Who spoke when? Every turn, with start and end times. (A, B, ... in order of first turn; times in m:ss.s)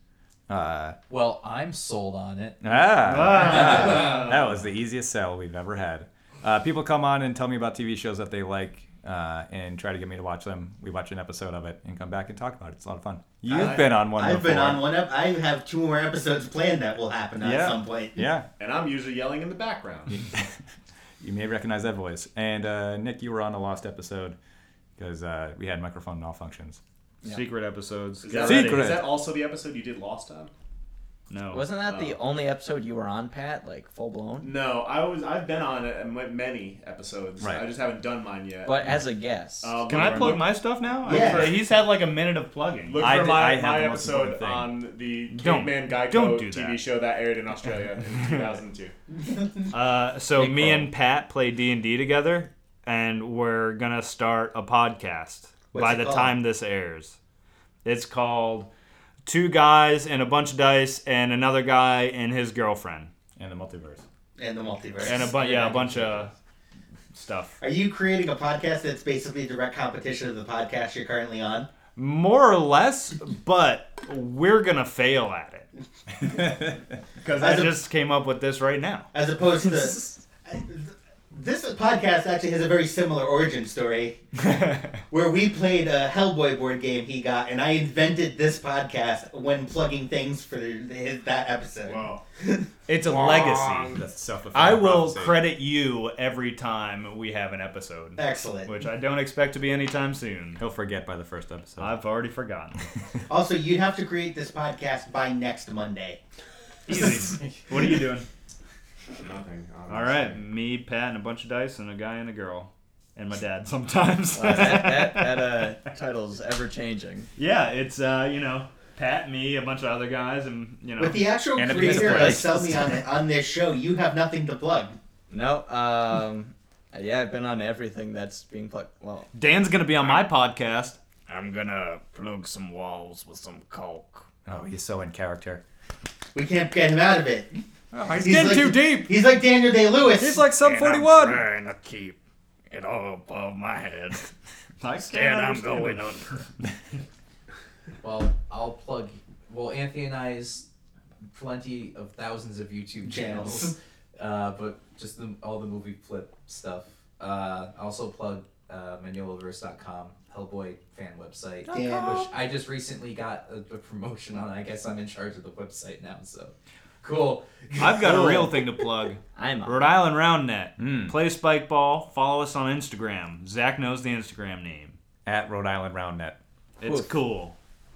0:00.5-0:01.0 A
0:01.1-0:02.7 B
0:02.6-0:14.8 A
0:03.0-0:04.6 C
0:13.5-0:18.3 D
0:13.5-0:13.9 E
0:17.4-0:18.5 A
0:18.6-0:20.3 E
0:21.2-0:24.4 A
0:25.0-0:26.8 A
0:27.2-0:29.0 C
0:28.2-0:30.5 E
0:28.4-0:29.1 A
0:31.3-0:31.8 C
0:31.5-0:34.6 F
0:31.8-0:32.2 E
0:34.4-0:39.0 E
0:37.4-0:37.6 A
0:38.6-0:40.3 F
0:39.6-0:41.6 E
0:39.9-0:43.2 C
0:39.9-0:40.4 A
0:41.0-0:41.6 D
0:42.9-0:48.9 E
0:43.0-0:44.7 A
0:45.3-0:46.8 C
0:48.0-0:48.6 C
0:49.7-0:57.2 C
0:55.7-0:56.4 D
0:57.8-0:58.7 C
0:59.2-1:03.1 C
1:03.4-1:04.0 A
1:04.4-1:05.7 D
1:05.0-1:06.3 C
1:07.1-1:07.6 C
1:07.6-1:11.7 D
1:11.9-1:15.7 C
1:17.2-1:19.1 C
1:17.4-1:17.8 D
1:19.1-1:24.3 D
1:25.1-1:32.6 D
1:31.8-1:32.2 E
1:32.9-1:34.0 C
1:33.0-1:34.0 E
1:33.9-1:35.4 A
1:34.5-1:40.6 C
1:38.2-1:38.8 D
1:40.6-1:42.0 A
1:41.8-1:42.9 C
1:43.3-1:46.2 D
1:46.9-1:48.2 C
1:49.2-1:50.4 E
1:49.9-1:55.8 C
1:54.3-1:57.3 F
1:57.4-2:01.2 C
2:01.0-2:05.0 D
2:01.5-2:02.6 A
2:01.7-2:03.0 F
2:05.3-2:09.3 F
2:09.3-2:11.0 C
2:11.3-2:14.2 G
2:14.4-2:15.6 A
2:16.3-2:17.6 D
2:17.9-2:19.0 A
2:18.1-2:19.1 C
2:18.2-2:20.5 D
2:20.2-2:21.4 A
2:20.6-2:22.2 G
2:22.7-2:24.3 G
2:24.8-2:26.2 C
2:25.0-2:26.4 G
2:28.0-2:30.6 B
2:31.3-2:48.5 B
2:33.0-2:33.8 D
2:41.7-2:42.3 D
2:47.8-2:55.0 C
2:49.3-2:50.0 F
2:50.8-2:51.1 A
2:55.2-2:56.4 A
2:56.8-2:57.5 C
2:56.8-2:57.1 F